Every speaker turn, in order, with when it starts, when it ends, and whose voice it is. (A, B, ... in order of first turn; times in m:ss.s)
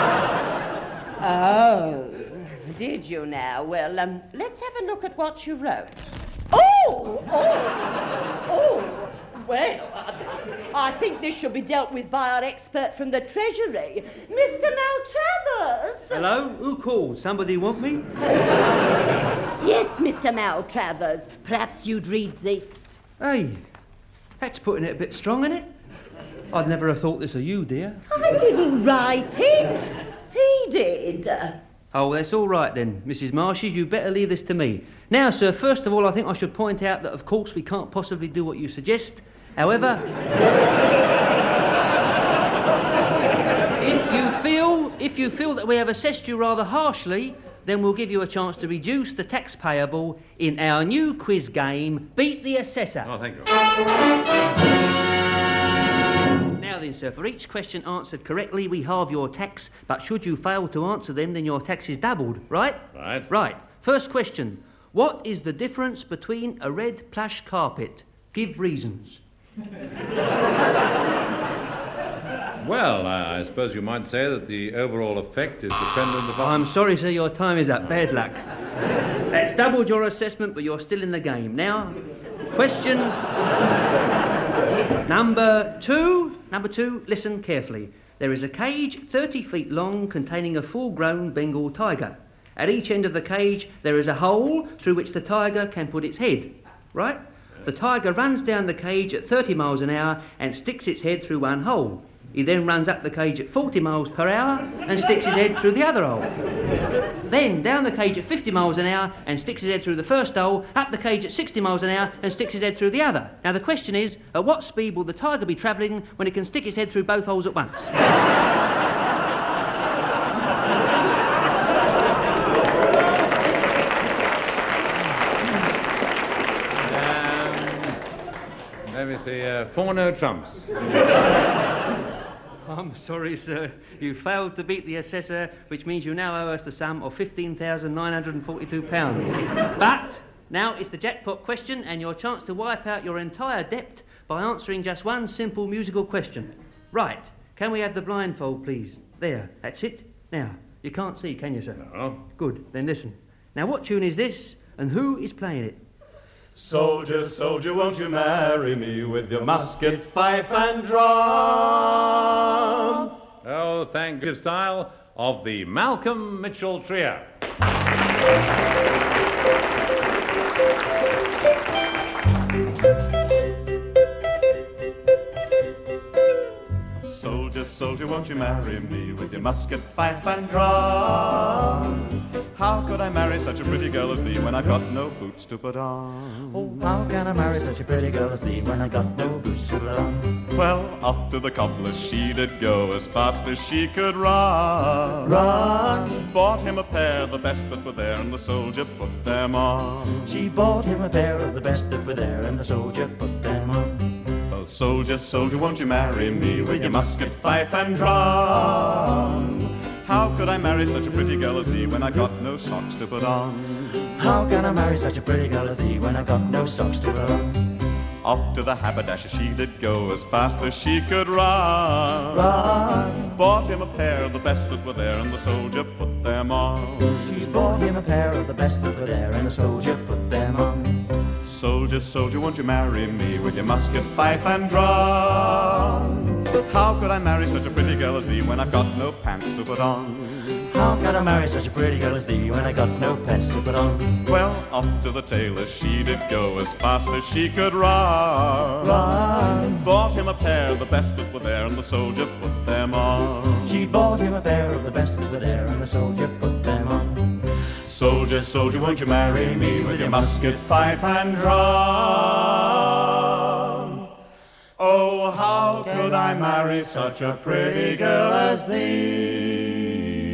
0:01.2-0:16.2 A
0:16.1-0:18.1 B
0:19.6-0:23.0 A
0:23.2-0:23.6 B
0:24.4-0:25.7 B
0:26.5-0:28.0 B
0:28.1-0:31.6 A
0:31.9-0:40.1 B
0:43.8-0:53.1 B
0:53.0-0:53.5 C
0:56.6-1:09.2 B
1:02.9-1:03.3 C
1:12.6-1:16.6 C
1:16.4-1:18.4 B
1:19.3-1:22.0 B
1:22.5-1:23.2 B
1:25.0-1:46.3 B
1:47.2-1:57.9 B
2:06.8-2:08.0 C
2:08.9-2:10.7 C
2:12.6-2:35.8 B
2:31.8-2:32.2 C
2:36.6-2:43.1 D
2:43.4-2:47.3 C
2:57.0-3:01.9 D
3:02.5-3:06.7 D
3:06.5-3:10.4 E
3:10.5-3:15.4 D
3:15.2-3:16.2 E
3:16.2-3:20.3 D
3:20.2-3:24.1 E
3:24.5-3:29.5 D
3:30.0-3:33.9 D
3:34.2-3:37.7 E
3:38.2-3:42.5 D
3:42.3-3:43.4 E
3:43.3-3:47.3 D
3:47.2-3:51.0 E
3:51.4-4:00.5 D
4:00.7-4:04.2 E
4:04.3-4:13.8 D
4:08.8-4:09.8 E
4:13.6-4:17.4 E
4:17.8-4:24.0 D
4:24.8-4:29.6 D
4:26.0-4:26.6 E
4:27.6-4:29.2 E